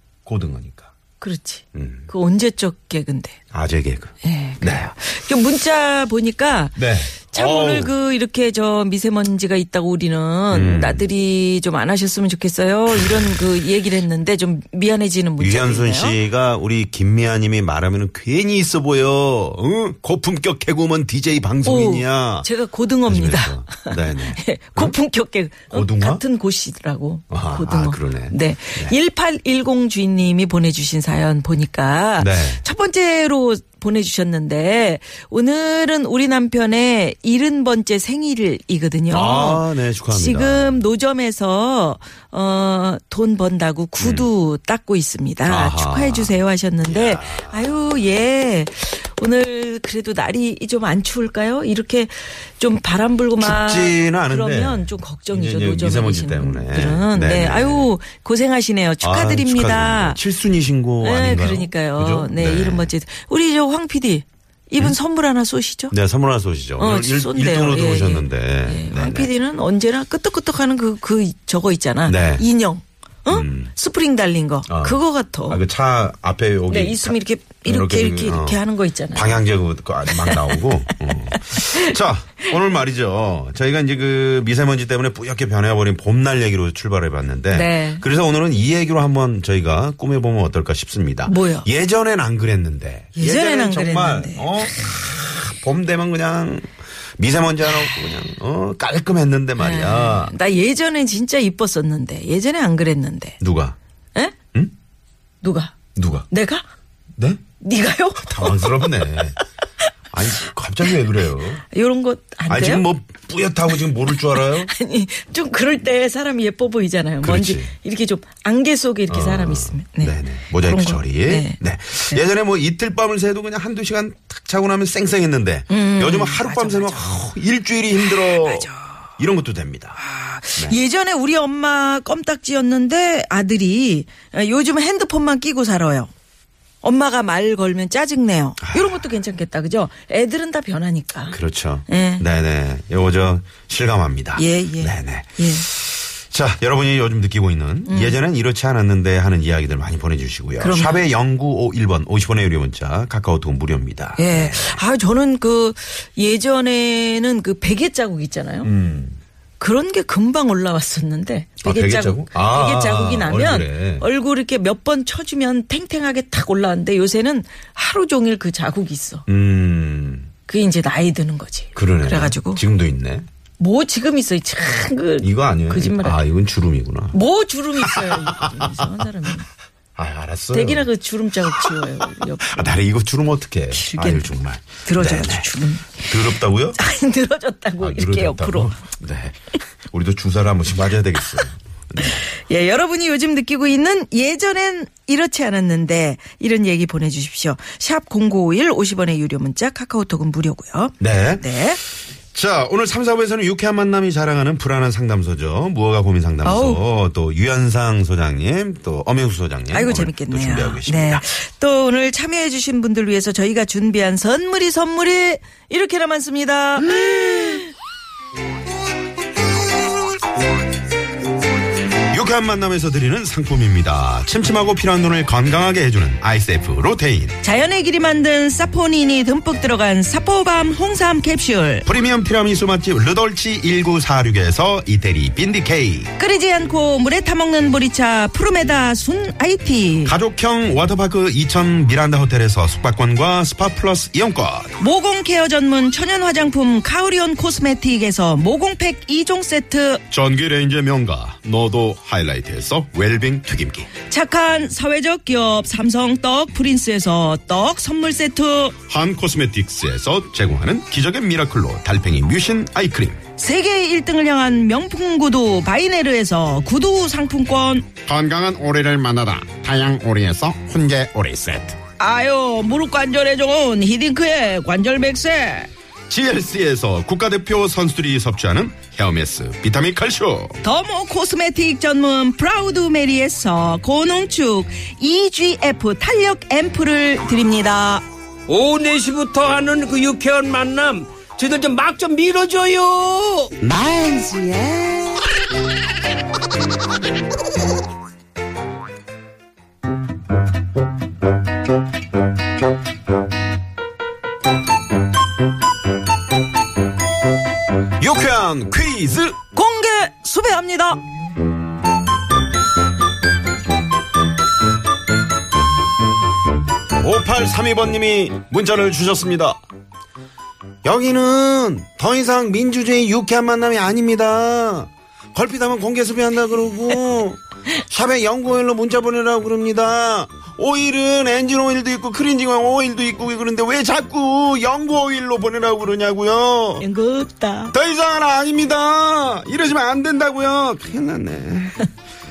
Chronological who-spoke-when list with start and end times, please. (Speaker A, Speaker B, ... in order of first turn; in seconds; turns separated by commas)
Speaker A: 0.2-0.9, Speaker B: 1.2-3.4, Speaker A: 1.7-2.1, Speaker A: 3.5-4.9, Speaker B: 4.2-6.8, Speaker A: 6.8-7.9, Speaker B: 7.3-16.2, Speaker A: 10.5-11.0, Speaker A: 12.9-13.3, Speaker A: 15.4-22.5, Speaker B: 21.6-60.2, Speaker A: 23.1-24.9, Speaker A: 25.7-26.2, Speaker A: 27.3-28.9, Speaker A: 32.2-32.6, Speaker A: 39.1-40.8, Speaker A: 44.0-44.3, Speaker A: 45.5-46.4, Speaker A: 46.9-47.9, Speaker A: 53.4-57.9, Speaker A: 59.0-62.9, Speaker B: 61.0-65.9, Speaker A: 65.9-69.3, Speaker B: 66.8-75.6, Speaker A: 72.0-72.4, Speaker A: 73.3-73.7, Speaker A: 74.7-78.6, Speaker B: 76.7-79.4, Speaker A: 79.1-100.3, Speaker B: 80.1-82.0, Speaker B: 87.5-88.0, Speaker B: 91.2-91.7, Speaker B: 93.2-94.9, Speaker B: 99.6-103.4, Speaker A: 103.4-103.8, Speaker B: 105.4-105.7, Speaker A: 106.0-106.3, Speaker B: 106.3-106.6, Speaker B: 107.6-109.1, Speaker A: 108.2-109.4, Speaker A: 110.1-111.6, Speaker B: 111.7-112.9, Speaker A: 112.5-114.7, Speaker B: 114.0-121.6, Speaker A: 117.2-117.7, Speaker A: 119.1-130.0, Speaker B: 125.7-127.2, Speaker B: 128.0-129.1, Speaker B: 130.0-136.1, Speaker B: 136.8-141.4, Speaker A: 138.6-139.0, Speaker A: 141.3-154.8, Speaker B: 141.9-142.2, Speaker B: 144.3-145.7, Speaker B: 147.8-148.2, Speaker B: 150.6-151.0, Speaker B: 154.2-158.7, Speaker A: 158.6-159.2, Speaker B: 159.6-169.2, Speaker A: 161.6-164.1, Speaker A: 169.3-170.3, Speaker B: 170.5-172.6, Speaker A: 171.8-173.2, Speaker B: 173.6-176.2, Speaker A: 175.2-177.2, Speaker B: 177.1-179.5, Speaker A: 177.8-179.0, Speaker A: 179.9-180.9, Speaker B: 180.5-182.8, Speaker A: 181.5-186.8, Speaker B: 183.7-188.8, Speaker A: 187.8-189.3, Speaker A: 189.9-192.2, Speaker B: 192.1-201.8, Speaker A: 201.0-201.5, Speaker A: 202.3-211.2, Speaker B: 206.4-206.8, Speaker B: 209.7-217.7, Speaker A: 216.9-217.5, Speaker A: 222.1-227.4, Speaker B: 227.4-231.8, Speaker A: 231.8-236.1, Speaker B: 236.2-240.2, Speaker A: 240.0-244.7, Speaker B: 244.8-250.0, Speaker A: 250.1-253.9, Speaker B: 254.1-258.8, Speaker A: 258.9-263.2, Speaker B: 263.4-267.9, Speaker A: 268.0-271.8, Speaker B: 272.0-275.7, Speaker A: 276.1-280.6, Speaker B: 280.6-288.0, Speaker C: 288.5-293.5, Speaker A: 293.6-295.3, Speaker A: 308.0-309.4, Speaker B: 309.5-311.0, Speaker A: 317.0-319.6, Speaker A: 320.8-336.9, Speaker B: 336.8-337.7, Speaker A: 337.7-341.9